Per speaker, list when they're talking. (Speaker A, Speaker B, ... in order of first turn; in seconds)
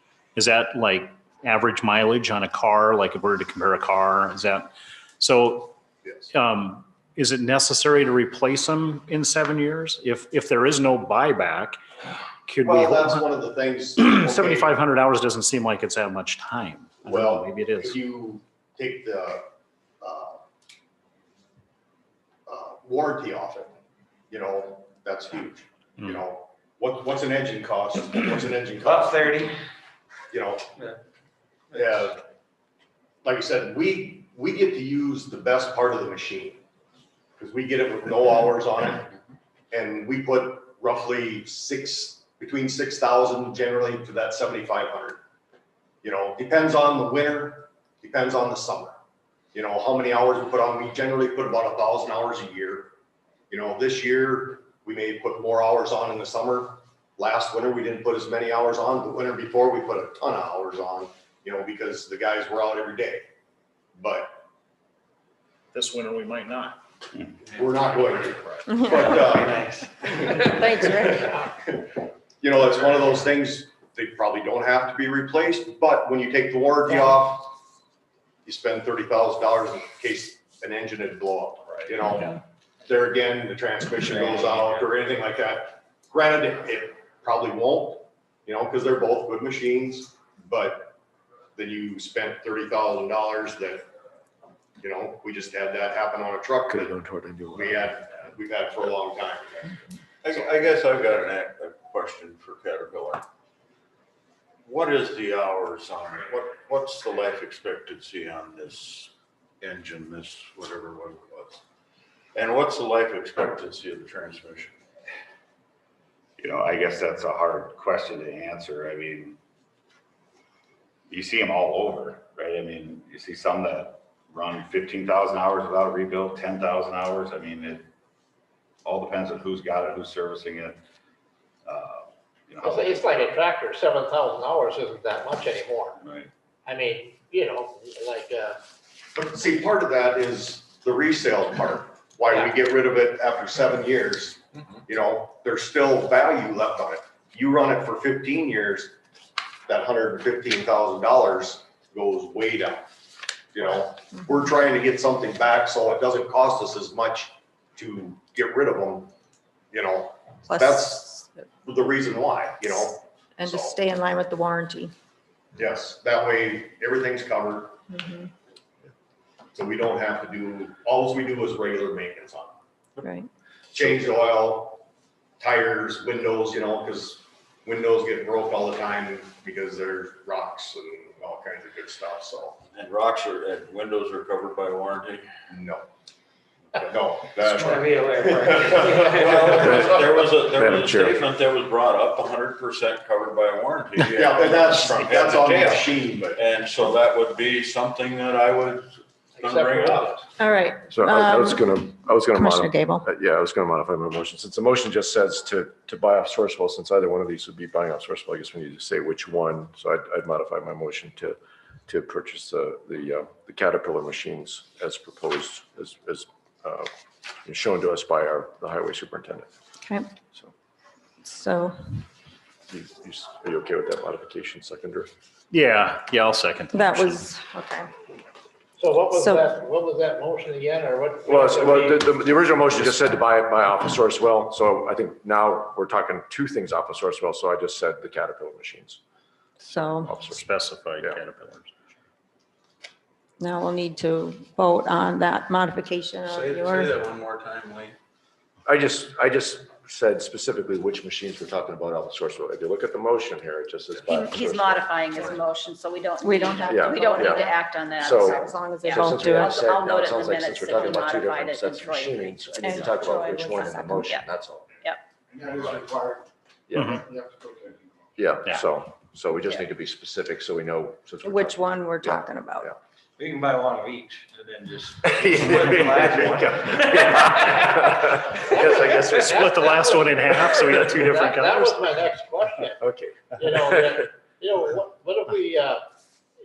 Speaker A: 0.3-5.8, 6.3-11.8, 12.5-13.3, 13.9-18.0, 65.7-66.8, 225.5-227.2, 240.2-241.7, 266.7-267.0, 279.3-281.8
Speaker B: 12.6-14.8, 17.0-19.4, 20.0-20.4, 22.5-23.7, 24.3-29.4, 30.3-30.7, 31.7-32.2, 33.2-36.6, 37.4-39.1, 39.7-45.2, 46.0-49.0, 49.5-52.9, 53.5-63.2, 64.0-64.4, 67.5-71.9, 72.4-77.5, 78.5-90.9, 91.5-93.9, 94.8-97.0, 97.5-100.6, 139.2-148.9, 149.7-152.9, 153.5-159.1, 159.7-163.8, 165.6-167.8, 169.5-172.5, 173.7-174.8, 175.4-182.6, 185.5-185.8, 186.7-189.6, 194.1-196.4
Speaker C: 28.8-29.5, 31.7-32.1, 67.6-68.1, 69.0-70.6, 84.2-84.8, 187.4-190.1, 273.2-278.1
Speaker D: 68.7-69.0, 70.3-71.4, 160.4-161.4, 163.4-164.9, 167.9-168.3, 173.0-173.3, 200.4-203.0, 221.2-221.8, 226.7-227.9, 229.1-229.4, 239.6-240.1, 243.4-247.1, 256.2-259.6, 262.6-264.2, 271.2-272.7
Speaker E: 96.7-98.0, 189.8-191.2, 200.9-211.3, 211.9-216.9, 217.4-219.5, 222.7-225.1, 231.2-239.0, 239.7-241.2, 248.7-255.3, 256.6-264.7, 265.4-266.0, 266.7-267.1, 268.2-272.8, 275.1-279.8, 282.8-284.0
Speaker F: 100.2-103.2, 104.6-111.6, 112.3-114.8, 182.7-185.3, 188.8-200.2, 246.3-247.9
Speaker G: 116.4-119.4, 121.1-127.8, 128.8-130.8, 131.7-133.3, 136.0-136.3
Speaker H: 132.6-136.0, 136.7-138.6, 199.3-200.2, 228.8-232.2, 278.4-282.8, 283.3-285.8
Speaker I: 254.1-262.6